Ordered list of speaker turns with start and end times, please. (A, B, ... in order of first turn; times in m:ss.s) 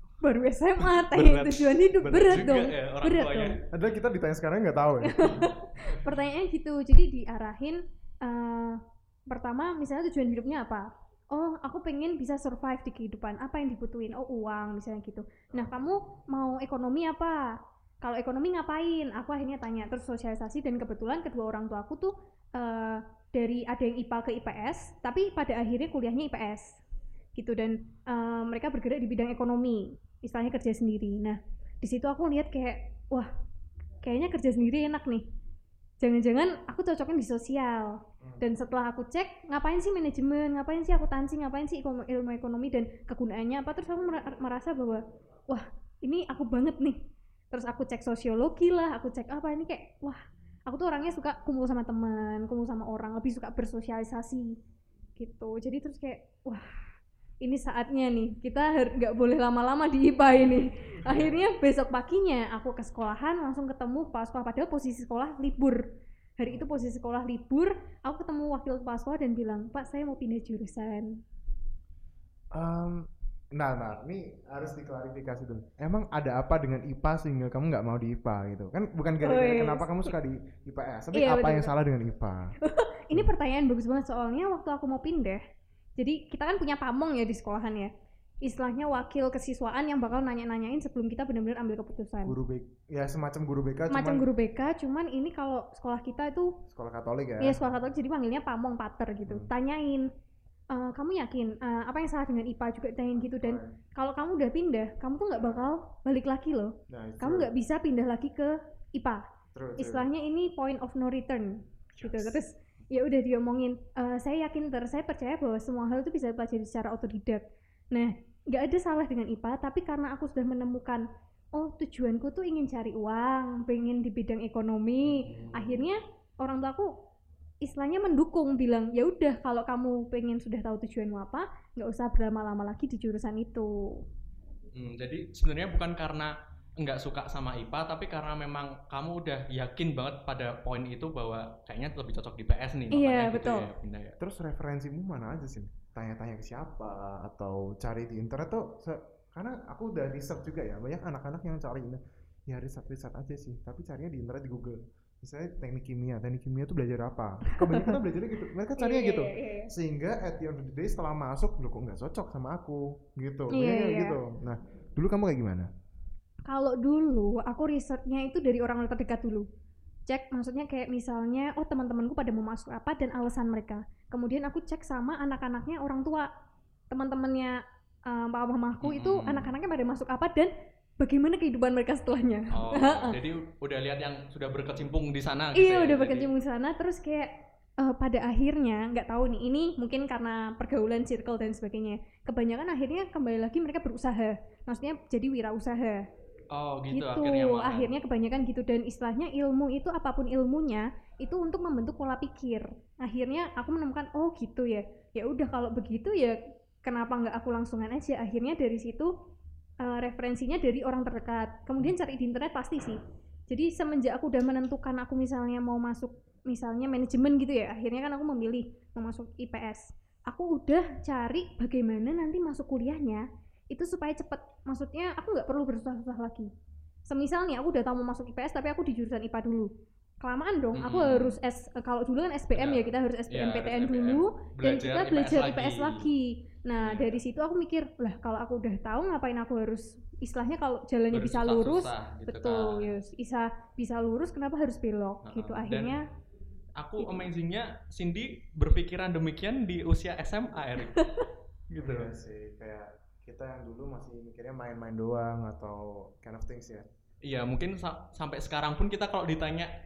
0:00.2-0:03.6 A
0:00.8-0:03.7 B
0:03.7-0:05.5 C
0:05.0-0:26.8 A
0:27.4-0:33.3 A
0:34.0-0:35.3 A
0:36.0-0:54.6 A
0:38.2-0:38.5 C
0:55.2-0:56.7 A
0:57.4-1:11.2 A
1:01.0-1:01.3 C
1:12.5-1:22.6 C
1:19.2-1:20.1 A
1:21.1-1:21.7 A
1:22.6-1:25.4 A
1:26.0-1:27.9 A
1:28.4-1:32.4 A
1:32.2-1:34.3 C
1:33.9-1:36.6 A
1:36.7-1:37.7 C
1:37.4-1:40.1 A
1:40.7-1:49.2 A
1:43.4-1:43.8 C
1:46.9-1:47.5 C
1:49.5-1:50.1 C
1:49.8-2:07.0 A
2:05.0-2:05.8 B
2:07.6-2:14.0 A
2:14.7-2:24.2 B
2:22.9-2:23.7 A
2:24.2-2:45.7 C
2:37.5-2:38.0 A
2:38.8-2:39.7 A
2:43.5-2:44.2 A
2:46.5-2:49.4 A
2:50.1-2:56.3 A
2:56.9-3:03.2 A
2:58.8-2:59.5 B
3:02.5-3:06.3 B
3:05.5-3:16.1 A
3:16.5-3:17.9 B
3:16.9-3:29.1 A
3:29.8-3:33.0 A
3:33.5-3:46.5 A
3:47.0-4:06.1 A
3:50.7-3:51.4 B
3:52.5-3:56.1 B
3:56.8-3:57.2 B
4:01.1-4:03.0 B
4:05.2-4:06.0 B
4:06.8-4:11.1 B
4:07.0-4:07.3 A
4:10.9-4:11.2 A
4:11.7-4:12.1 B
4:11.8-4:16.9 C
4:17.2-4:19.7 B